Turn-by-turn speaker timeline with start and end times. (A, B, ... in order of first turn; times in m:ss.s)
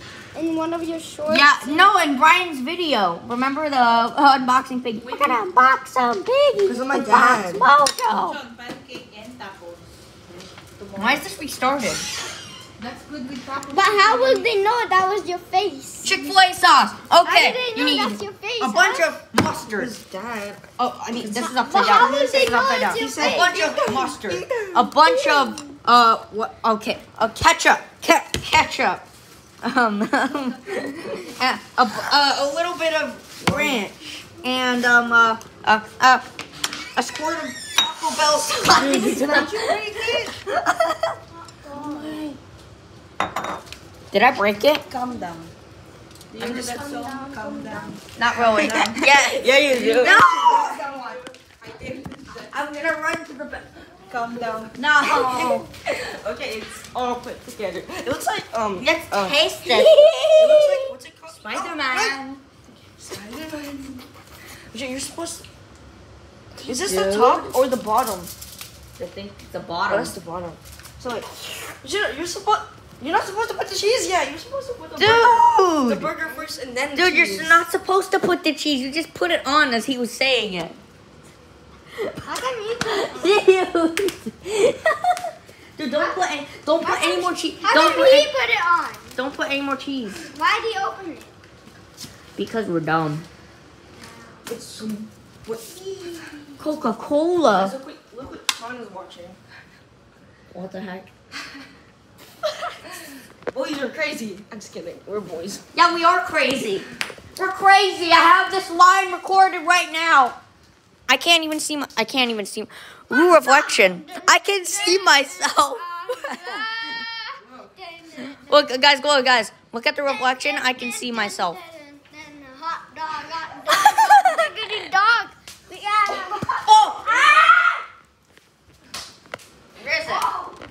0:00.3-0:01.9 A
0:01.3-0:05.1 B
0:05.0-0:05.4 C
0:05.1-0:07.0 A
0:06.6-0:07.7 D
0:07.1-0:08.4 B
0:08.1-0:11.3 C
0:11.0-0:12.0 B
0:12.8-0:14.5 C
0:13.7-0:16.3 A
0:16.0-0:19.9 B
0:17.2-0:19.1 A
0:19.7-0:20.7 D
0:20.8-0:29.0 B
0:21.2-0:24.9 D
0:21.4-0:24.0 A
0:25.2-0:25.6 A
0:29.6-0:36.2 B
0:30.3-0:30.8 C
0:33.4-0:33.8 D
0:37.0-0:39.7 B
0:38.7-0:39.5 D
0:38.7-0:40.4 C
0:40.4-0:41.1 B
0:41.4-0:42.3 A
0:41.7-0:42.4 C
0:44.1-0:44.8 B
0:44.9-0:45.5 C
0:46.3-0:48.0 C
0:46.4-0:48.0 A
0:48.1-0:50.8 B
0:48.5-0:51.2 D
0:49.6-0:52.8 C
0:52.5-0:53.7 B
0:54.0-0:55.3 C
0:54.7-0:55.7 B
0:55.0-0:59.4 D
0:58.8-1:02.4 B
1:00.4-1:02.2 D
1:03.0-1:04.0 D
1:04.7-1:05.4 D
1:06.6-1:07.5 B
1:06.6-1:08.3 D
1:09.0-1:10.1 B
1:09.9-1:17.6 D
1:15.0-1:16.1 B
1:16.9-1:20.8 B
1:22.2-1:23.4 A
1:22.8-1:28.3 B
1:25.9-1:26.2 A
1:26.8-1:29.2 A
1:29.1-1:30.3 B
1:30.3-1:31.3 A
1:32.4-1:33.3 B
1:33.9-1:34.5 A
1:34.5-1:36.4 D
1:35.7-1:36.3 A
1:36.6-1:37.8 B
1:37.5-1:39.4 D
1:40.5-1:41.1 B
1:43.5-1:45.6 D
1:45.7-1:50.4 B
1:51.1-1:57.0 B
1:53.1-1:58.6 A
1:58.2-2:01.6 B
2:00.0-2:07.7 A
2:03.7-2:04.5 B
2:06.6-2:07.3 B
2:09.8-2:10.3 B
2:10.1-2:10.5 A